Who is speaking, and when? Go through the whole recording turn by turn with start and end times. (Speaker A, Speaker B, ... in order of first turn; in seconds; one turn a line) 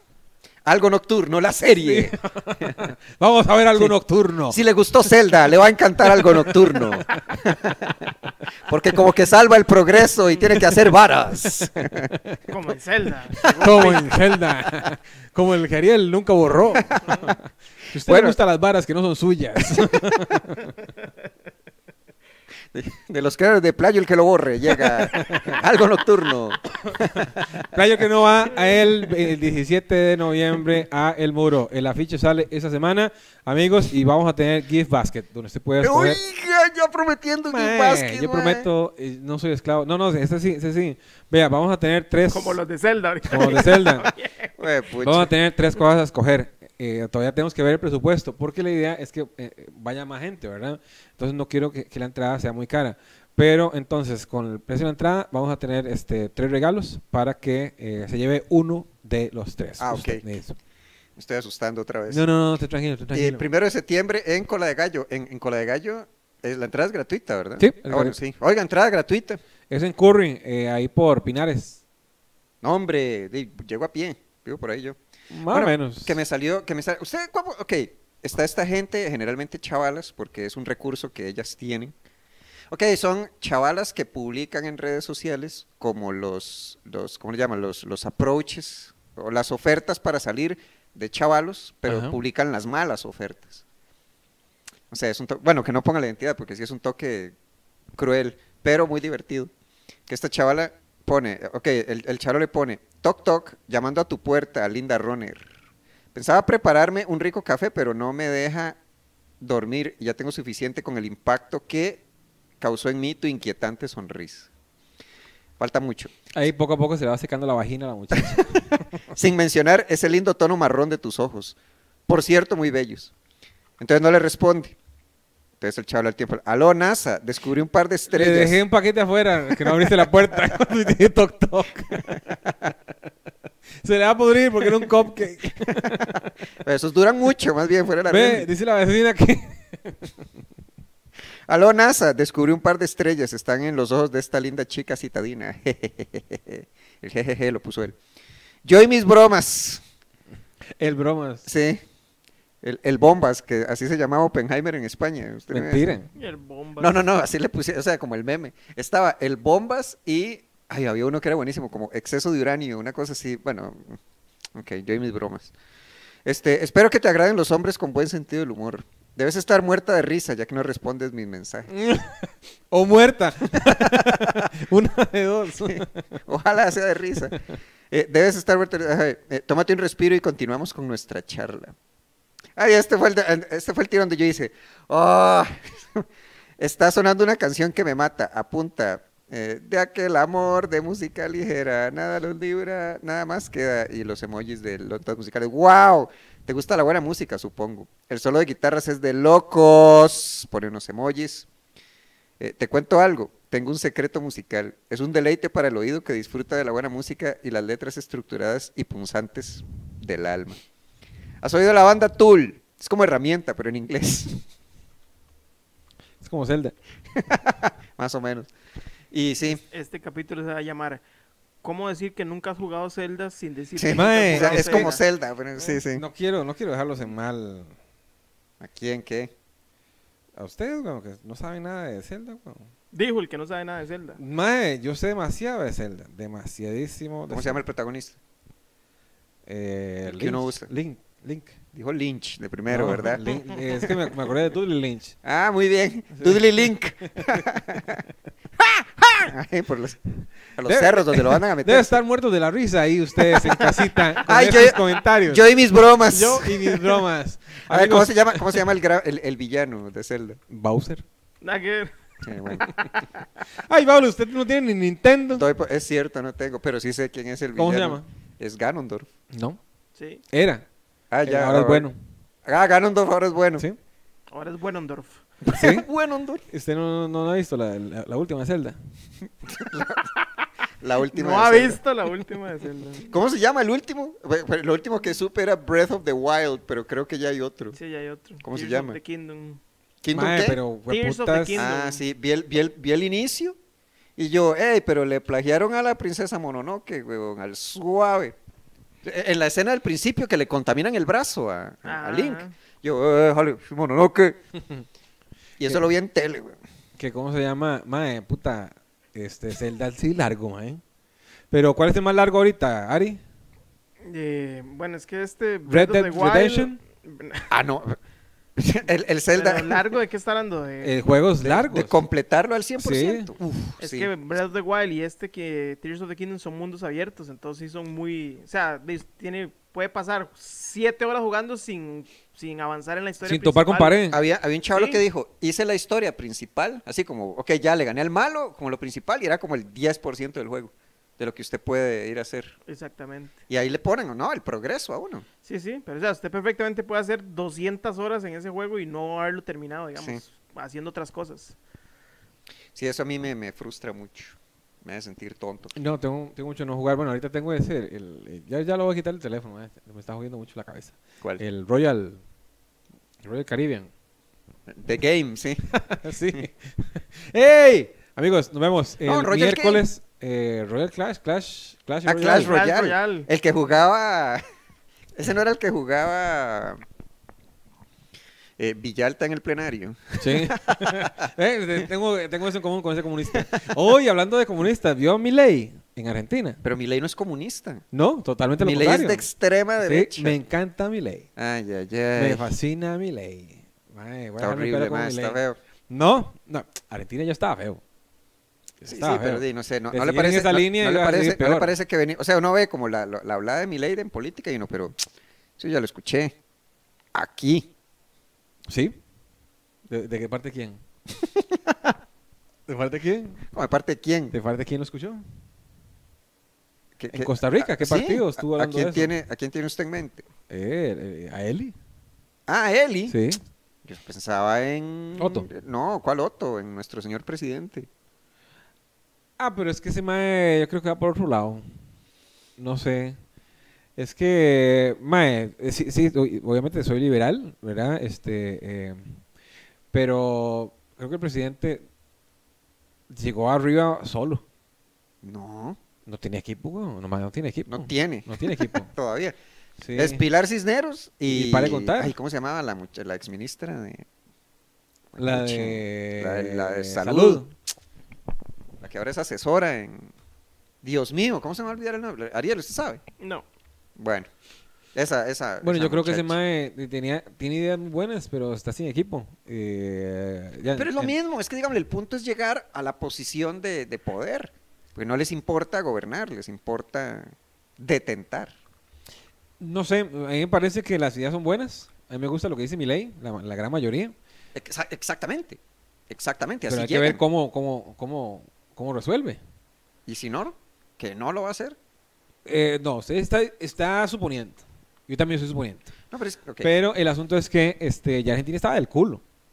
Speaker A: 0.7-2.8
Speaker B: 1.8-4.6
Speaker A: 4.5-8.1
Speaker B: 6.1-7.2
Speaker A: 8.7-12.1
Speaker B: 12.1-12.4
Speaker C: 12.5-14.2
Speaker A: 13.4-13.8
Speaker B: 13.6-17.4
Speaker A: 16.9-17.3
Speaker B: 17.9-20.8
Speaker A: 18.0-18.4
Speaker A: 19.7-20.2
Speaker A: 22.7-27.5
Speaker B: 25.1-25.6
Speaker B: 27.2-36.2
Speaker A: 35.8-38.7
Speaker B: 37.5-42.6
Speaker C: 42.3-44.5
Speaker B: 43.3-44.1
Speaker A: 44.6-45.3
Speaker B: 45.0-60.6
Speaker A: 59.8-60.2
Speaker A: 61.2-62.3
Speaker B: 62.1-63.4
Speaker A: 63.1-69.4
Speaker B: 67.6-68.2
Speaker B: 69.7-71.8
Speaker A: 72.6-75.0
Speaker B: 75.3-76.2
Speaker A: 75.5-81.9
Speaker A: 82.7-93.6
Speaker B: 91.9-92.2
Speaker A: 94.9-97.3
Speaker A: 98.0-99.5
Speaker A: 100.1-105.5
Speaker A: 106.1-108.8
Speaker A: 109.4-112.0
Speaker A: 112.6-114.5
Speaker A: 115.6-116.1
Speaker B: 116.3-118.8
Speaker A: 118.2-118.5
Speaker A: 119.1-123.1
Speaker A: 123.8-124.8
Speaker A: 125.6-128.6
Speaker B: 128.1-132.2
Speaker A: 129.6-130.1
Speaker A: 132.1-132.7
Speaker B: 133.8-136.3
Speaker A: 135.7-138.5
Speaker B: 138.1-140.1
Speaker A: 141.5-148.0
Speaker A: 148.7-149.8
Speaker B: 150.8-151.5
Speaker A: 151.4-151.8
Speaker A: 152.6-156.0
Speaker B: 155.5-156.1
Speaker C: 156.2-157.0
Speaker A: 156.8-164.0
Speaker A: 164.5-165.5
Speaker A: 166.2-171.7
Speaker B: 171.7-176.1
Speaker A: 173.6-174.4
Speaker A: 175.7-177.4
Speaker B: 177.3-177.6
Speaker A: 177.9-181.8
Speaker A: 182.6-201.5
Speaker A: 202.4-210.6
Speaker A: 211.4-214.4
Speaker B: 216.2-216.8
Speaker A: 217.2-218.5
Speaker A: 219.1-219.6
Speaker C: 219.4-221.0
Speaker C: 221.6-225.0
Speaker A: 223.8-226.0
Speaker B: 223.9-224.9
Speaker B: 225.9-227.7
Speaker A: 228.6-229.3
Speaker B: 230.4-232.7
Speaker C: 232.9-234.2
Speaker B: 234.2-237.6
Speaker A: 237.3-238.2
Speaker B: 239.5-241.6
Speaker A: 240.1-240.7
Speaker A: 241.7-243.2
Speaker B: 242.7-245.2
Speaker A: 243.8-244.1
Speaker A: 245.2-248.0
Speaker B: 246.2-246.5
Speaker B: 247.1-247.5
Speaker A: 248.6-250.0
Speaker A: 250.6-251.9
Speaker B: 250.7-255.4
Speaker A: 253.2-257.0
Speaker B: 256.1-258.6
Speaker A: 257.7-260.4
Speaker B: 260.5-261.0
Speaker C: 261.4-263.2
Speaker A: 262.2-262.7
Speaker B: 263.5-265.4
Speaker A: 265.3-269.1
Speaker B: 267.6-268.1
Speaker B: 269.3-269.6
Speaker C: 270.0-270.2
Speaker B: 270.3-270.6
Speaker A: 271.1-271.9
Speaker B: 271.2-272.0
Speaker A: 272.4-273.7
Speaker C: 274.3-275.2
Speaker A: 275.4-276.4
Speaker B: 275.5-275.9
Speaker B: 276.5-278.8
Speaker A: 279.5-280.1
Speaker A: 280.8-281.8
Speaker C: 281.1-283.2
Speaker A: 283.1-287.8
Speaker C: 287.7-289.6
Speaker A: 288.4-289.0
Speaker A: 290.0-290.6
Speaker B: 290.1-291.6
Speaker C: 290.9-292.0
Speaker A: 291.5-293.6
Speaker A: 294.2-298.4
Speaker A: 299.0-304.4
Speaker C: 301.9-302.6
Speaker A: 305.6-306.6
Speaker B: 307.0-310.8
Speaker B: 311.5-313.2
Speaker C: 314.0-317.5
Speaker B: 315.7-316.8
Speaker A: 317.5-318.0
Speaker A: 318.6-319.8
Speaker C: 319.3-321.0
Speaker B: 320.8-322.0
Speaker A: 321.4-324.1
Speaker B: 322.8-323.3
Speaker C: 323.8-334.0
Speaker B: 333.2-334.2
Speaker A: 334.1-342.5
Speaker C: 334.7-335.0
Speaker C: 342.7-343.4
Speaker A: 343.5-345.3
Speaker C: 345.4-351.6
Speaker A: 352.8-355.8
Speaker B: 355.8-362.2
Speaker B: 363.2-363.9
Speaker A: 364.7-365.6
Speaker B: 365.7-372.6
Speaker A: 369.0-369.9
Speaker A: 372.1-374.4
Speaker C: 372.4-373.3
Speaker A: 375.1-376.8
Speaker A: 378.6-381.1
Speaker B: 380.2-386.6
Speaker A: 383.3-383.7
Speaker A: 386.6-387.9
Speaker B: 387.9-389.2
Speaker A: 388.6-390.4
Speaker B: 389.8-391.3
Speaker A: 391.4-392.5
Speaker B: 392.2-397.8
Speaker A: 394.4-395.6
Speaker B: 398.8-401.7
Speaker A: 398.9-405.0
Speaker A: 405.6-406.4
Speaker A: 407.1-407.7
Speaker B: 408.7-409.0
Speaker B: 409.9-410.8
Speaker A: 411.2-411.6
Speaker B: 412.7-413.4
Speaker A: 413.5-414.4
Speaker B: 414.3-415.2
Speaker A: 417.0-420.2
Speaker B: 417.1-419.1
Speaker B: 420.5-421.8
Speaker A: 422.5-423.2
Speaker B: 423.1-423.4
Speaker A: 423.9-427.9
Speaker B: 425.2-425.5
Speaker B: 429.4-431.7
Speaker B: 432.6-433.2
Speaker B: 434.0-439.2
Speaker B: 439.9-441.9
Speaker B: 443.1-444.4
Speaker A: 445.2-445.8
Speaker B: 446.1-448.9
Speaker A: 447.7-449.4
Speaker B: 449.8-450.2
Speaker A: 449.9-454.1
Speaker B: 451.3-452.2
Speaker A: 455.1-457.5
Speaker B: 455.2-457.5
Speaker A: 458.8-460.1
Speaker A: 460.8-463.0
Speaker C: 463.2-463.5
Speaker A: 464.0-464.3
Speaker A: 464.9-466.4
Speaker B: 465.6-471.1
Speaker A: 470.8-478.5
Speaker B: 479.6-484.1
Speaker A: 484.6-487.2
Speaker B: 486.7-489.4
Speaker A: 490.1-491.8
Speaker B: 492.5-495.9
Speaker A: 496.1-496.7
Speaker B: 496.6-499.2